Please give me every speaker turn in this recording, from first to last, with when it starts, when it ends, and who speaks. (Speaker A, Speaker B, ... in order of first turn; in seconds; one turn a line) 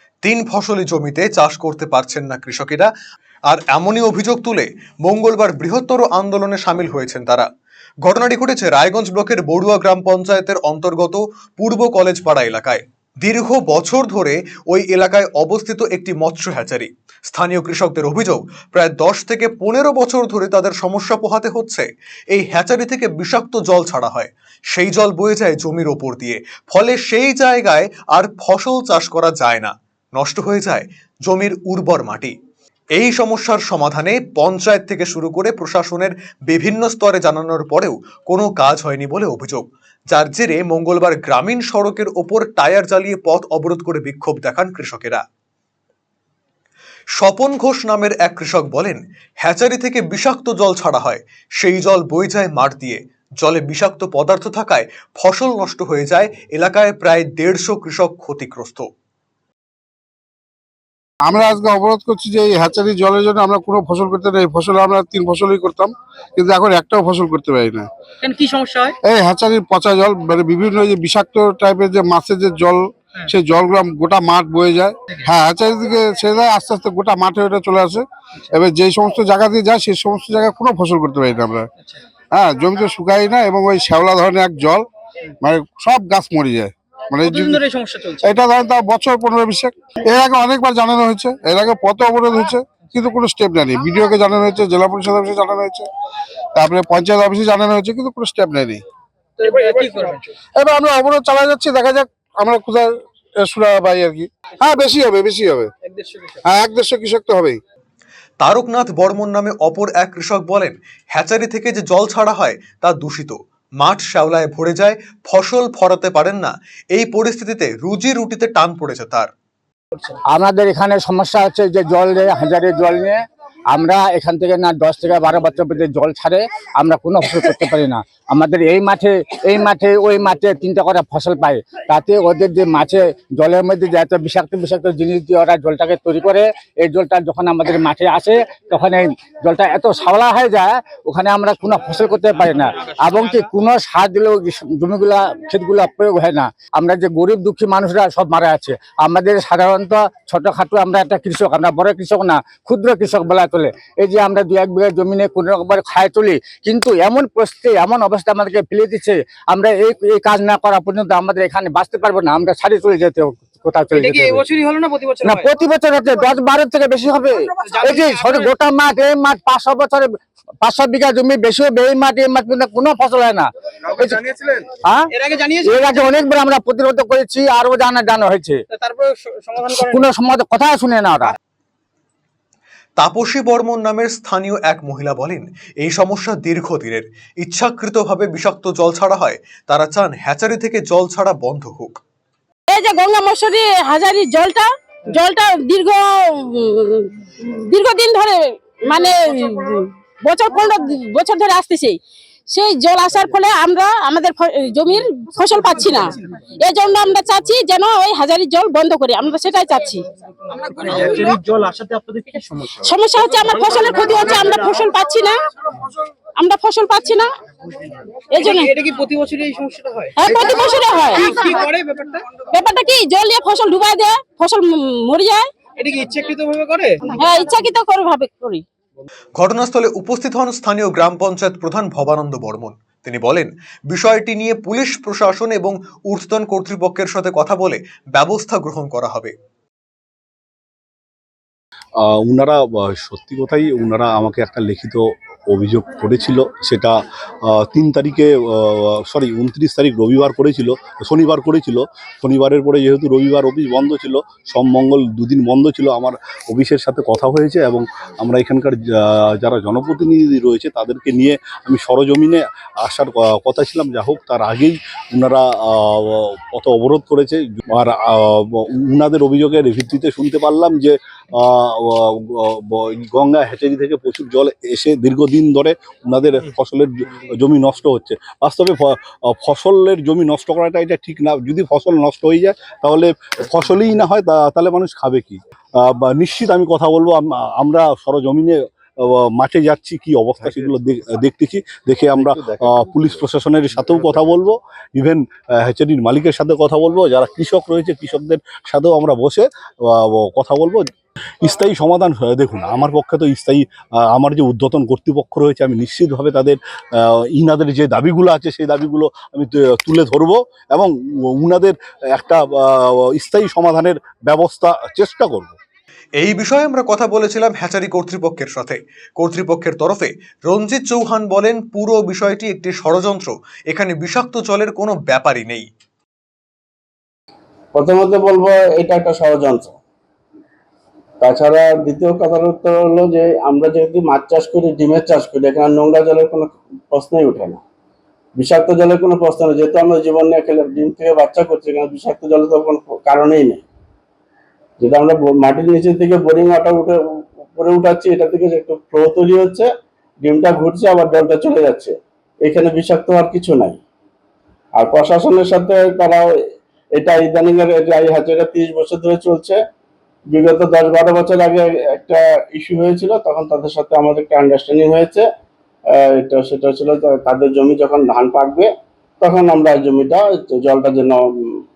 Speaker A: 0.2-2.9
Speaker A: 3.5-7.5
Speaker A: 8.0-32.3
Speaker A: 32.9-45.2
Speaker A: 47.2-58.9
Speaker B: 61.2-67.9
Speaker C: 68.2-68.9
Speaker B: 69.0-81.7
Speaker B: 82.3-84.9
Speaker B: 85.4-87.6
Speaker C: 87.2-88.3
Speaker B: 88.2-95.9
Speaker B: 96.5-98.8
Speaker C: 99.4-100.4
Speaker B: 99.5-100.0
Speaker B: 100.5-105.7
Speaker C: 105.8-106.4
Speaker B: 106.4-107.6
Speaker A: 108.4-119.3
Speaker D: 120.3-123.2
Speaker D: 123.7-164.4
Speaker C: 163.9-165.5
Speaker D: 165.2-170.1
Speaker C: 167.5-168.5
Speaker D: 170.6-174.2
Speaker C: 175.1-176.0
Speaker D: 175.6-178.6
Speaker C: 178.7-180.0
Speaker D: 179.6-181.3
Speaker A: 183.0-192.0
Speaker E: 192.7-202.0
Speaker E: 202.5-210.1
Speaker C: 210.5-212.8
Speaker E: 210.9-211.2
Speaker E: 212.7-215.4
Speaker C: 213.4-214.7
Speaker E: 216.4-217.3
Speaker C: 217.8-222.4
Speaker E: 218.3-218.7
Speaker E: 220.2-221.4
Speaker E: 222.5-225.5
Speaker C: 225.8-227.1
Speaker E: 227.0-228.6
Speaker A: 229.3-239.3
Speaker F: 242.0-246.9
Speaker F: 247.4-300.8
Speaker F: 301.4-315.6
Speaker A: 316.2-325.6
Speaker G: 327.7-329.8
Speaker G: 331.2-337.6
Speaker G: 338.4-343.6
Speaker G: 344.8-349.7
Speaker G: 350.2-353.8
Speaker G: 354.8-356.2
Speaker G: 356.9-359.6
Speaker G: 360.3-365.2
Speaker G: 366.1-368.7
Speaker G: 369.2-371.2